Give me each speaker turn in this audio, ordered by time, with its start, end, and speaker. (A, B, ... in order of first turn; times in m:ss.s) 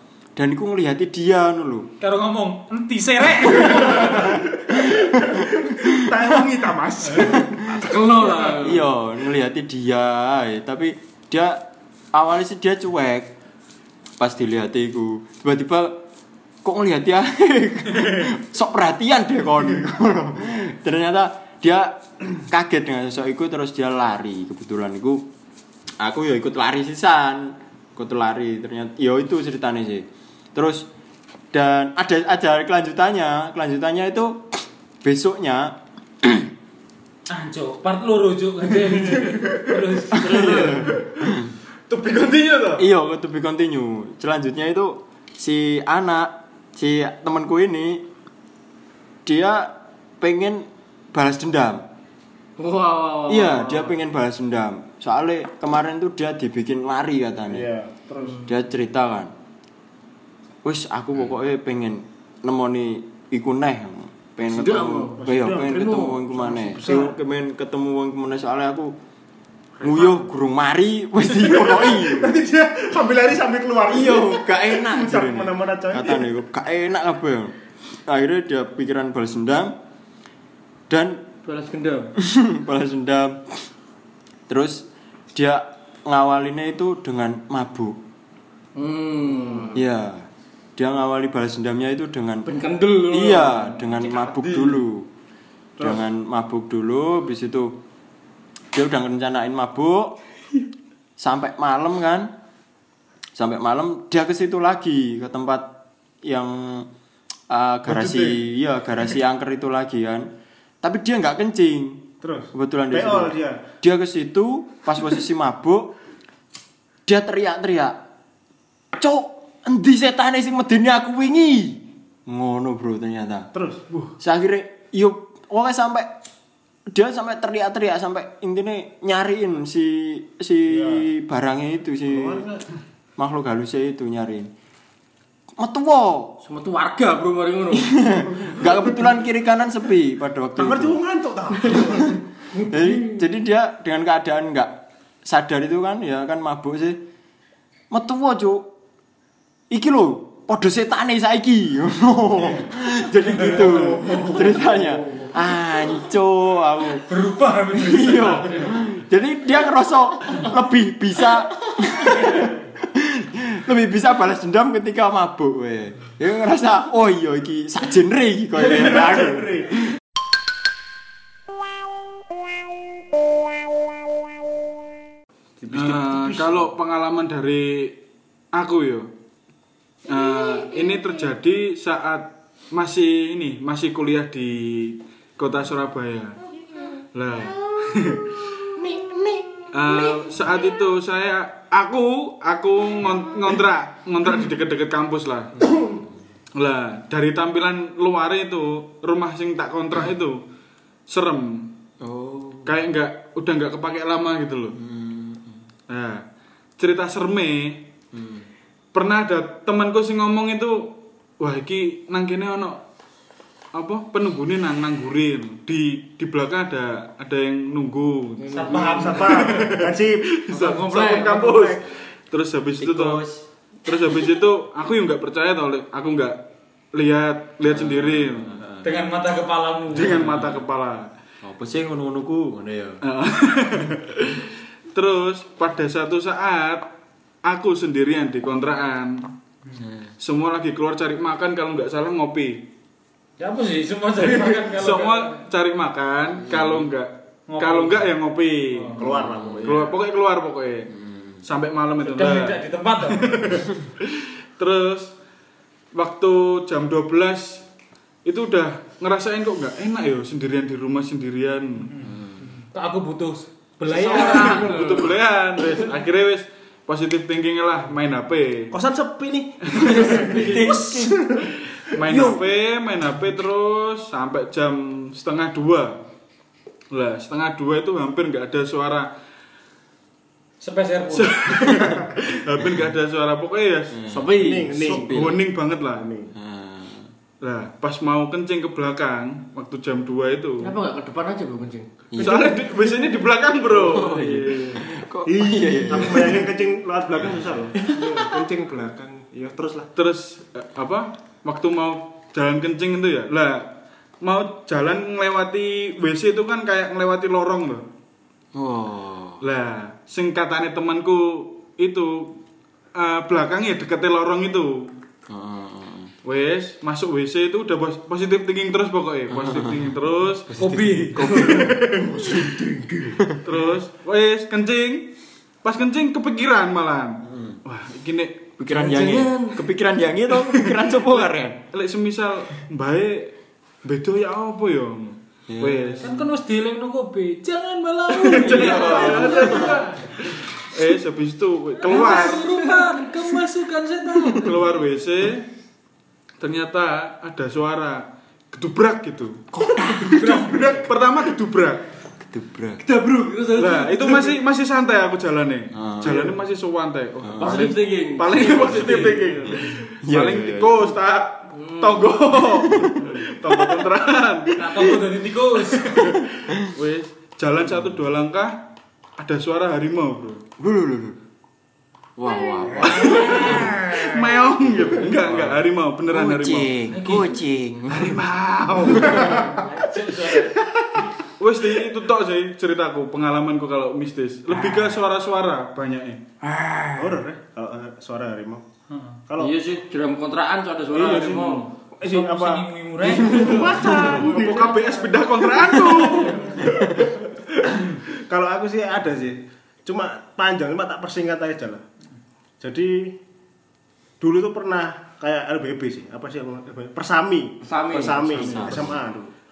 0:00.4-0:01.9 A
0:02.0-0:04.3 B
0:03.7-0:06.2 A
0:04.2-0:07.9 C
0:07.2-0:07.9 A
0:07.7-0:08.9 D
0:08.5-0:13.3 A
0:14.2-0:16.0 A
0:16.6-0:25.3 A
0:26.0-0:30.9 A
0:31.5-0:36.5 A
0:37.3-0:40.9 B
0:40.1-0:41.5 A
0:41.9-0:42.8 E
0:42.7-0:48.0 A
0:49.2-0:51.8 A
0:52.6-0:53.9 D
0:53.3-0:57.7 A
0:57.5-0:58.5 C
0:58.4-0:59.3 A
1:00.6-1:08.9 A
1:04.4-1:06.2 D
1:05.2-1:07.1 C
1:09.8-1:10.2 C
1:09.8-1:12.3 A
1:11.3-1:16.2 C
1:13.9-1:19.8 A
1:20.9-1:21.2 A
1:21.4-1:22.1 D
1:22.2-1:23.6 A
1:24.5-1:28.0 A
1:28.8-1:29.8 D
1:29.7-1:32.5 A
1:32.4-1:34.5 D
1:33.1-1:35.1 A
1:35.8-1:37.8 A
1:38.7-1:40.2 A
1:41.2-1:42.3 A
1:43.4-1:45.7 A
1:46.2-1:46.9 A
1:47.5-1:50.3 A
1:50.8-1:55.9 A
1:52.2-1:53.6 C
1:57.1-1:58.0 A
1:58.9-2:03.5 A
2:03.5-2:04.1 C
2:04.2-2:06.1 A
2:06.9-2:12.4 A
2:10.7-2:11.1 C
2:12.1-2:12.6 C
2:13.2-2:14.5 A
2:15.6-2:16.4 A
2:16.4-2:18.3 D
2:17.7-2:21.0 A
2:20.6-2:22.2 C
2:21.7-2:27.0 A
2:22.5-2:23.2 D
2:27.9-2:28.6 A
2:29.7-2:37.0 A
2:37.1-2:38.7 B
2:37.7-2:49.9 A
2:48.7-2:49.8 C
2:55.6-2:56.7 C
2:55.7-2:58.0 E
2:58.5-2:59.1 E
3:00.1-3:06.4 E
3:07.1-3:08.4 E
3:09.7-3:15.5 E
3:15.6-3:16.0 A
3:16.5-3:20.4 E
3:21.1-3:21.7 E
3:22.0-3:22.8 A
3:22.6-3:24.8 E
3:24.7-3:25.6 A
3:25.9-3:26.2 E
3:26.8-3:27.9 E
3:28.1-3:28.5 A
3:28.9-3:32.8 E
3:33.7-3:43.2 E
3:38.5-3:39.6 B
3:38.5-3:39.2 D
3:39.0-3:40.4 C
3:40.6-3:41.7 D
3:42.8-3:43.4 A
3:43.8-3:46.4 E
3:46.9-3:48.6 E
3:47.7-3:48.9 A
3:48.8-3:50.4 B
3:49.9-3:51.1 E
3:51.4-3:53.0 A
3:53.0-3:56.9 E
3:57.4-3:59.3 E
3:59.8-4:00.1 A
4:00.2-4:02.7 E
4:03.4-4:05.4 B
4:04.6-4:10.9 E
4:06.5-4:06.9 A
4:07.5-4:08.1 B
4:08.7-4:09.0 B
4:08.9-4:10.0 C
4:09.0-4:09.8 A
4:11.4-4:15.1 E
4:12.0-4:13.6 B
4:15.9-4:17.6 E
4:18.2-4:21.9 E
4:21.9-4:25.0 B
4:22.0-4:22.5 A
4:24.0-4:25.0 D
4:24.1-4:28.7 E
4:28.7-4:31.7 C
4:29.8-4:30.8 D
4:30.0-4:31.2 A
4:32.0-4:36.0 E
4:32.1-4:32.4 A
4:36.9-4:39.1 E
4:40.6-4:41.5 B
4:41.1-4:44.1 E
4:41.6-4:42.0 A
4:43.9-4:45.3 A
4:44.1-4:44.9 D
4:44.3-4:45.4 C
4:44.9-4:46.1 E
4:45.9-4:46.3 C
4:46.3-4:47.1 A
4:47.4-4:50.8 E
4:50.6-4:52.9 D
4:52.1-4:52.6 A
4:52.2-4:54.8 E
4:53.6-4:54.9 D
4:53.8-4:56.5 A
4:55.3-4:59.9 C
4:55.9-4:56.3 D
4:57.8-4:58.3 D
5:00.0-5:07.9 E
5:08.5-5:09.4 A
5:09.4-5:12.4 E
5:12.9-5:14.9 E
5:15.3-5:16.1 A
5:16.2-5:20.6 E
5:19.3-5:20.0 A
5:20.5-5:21.6 A
5:20.6-5:21.4 B
5:21.1-5:22.1 E
5:21.3-5:23.1 D
5:22.0-5:22.7 C
5:23.4-5:25.1 E
5:25.6-5:28.5 E
5:27.2-5:27.6 A
5:28.6-5:31.6 A
5:28.7-5:29.6 D
5:31.7-5:36.1 E
5:35.5-5:36.1 A
5:36.0-5:39.8 B
5:38.2-5:42.6 E
5:38.4-5:39.8 D
5:38.6-5:39.8 A
5:41.8-5:44.6 B
5:41.9-5:43.0 D
5:44.4-5:45.5 E
5:46.4-5:49.4 E
5:49.5-5:50.5 A
5:50.0-5:51.8 E
5:50.1-5:50.8 B
5:52.2-5:52.8 A
5:52.8-5:54.4 D
5:53.6-6:04.6 E
5:55.7-5:56.2 A
5:56.0-5:56.4 D
5:57.2-5:57.7 A
5:57.4-5:59.5 D
5:58.6-5:59.2 B
6:00.0-6:00.9 A
6:01.5-6:02.2 D
6:02.3-6:03.8 A
6:04.5-6:06.0 B
6:05.7-6:06.8 A
6:06.7-6:08.6 E
6:09.2-6:10.4 E
6:10.6-6:11.2 A
6:12.2-6:15.6 A
6:12.8-6:16.8 E
6:12.8-6:13.6 B
6:16.1-6:18.3 A
6:16.9-6:17.3 B
6:17.9-6:19.5 E
6:18.9-6:20.7 B
6:18.9-6:19.2 A
6:21.4-6:26.2 E
6:26.4-6:27.2 A
6:27.0-6:28.6 C
6:28.9-6:29.2 B
6:29.3-6:29.5 C
6:29.4-6:31.7 D
6:30.9-6:41.8 C
6:32.0-6:33.6 B
6:33.3-6:35.2 D
6:33.6-6:36.5 E
6:42.6-6:43.2 C
6:44.2-6:49.3 C
6:47.6-6:48.7 D
6:48.1-6:49.0 A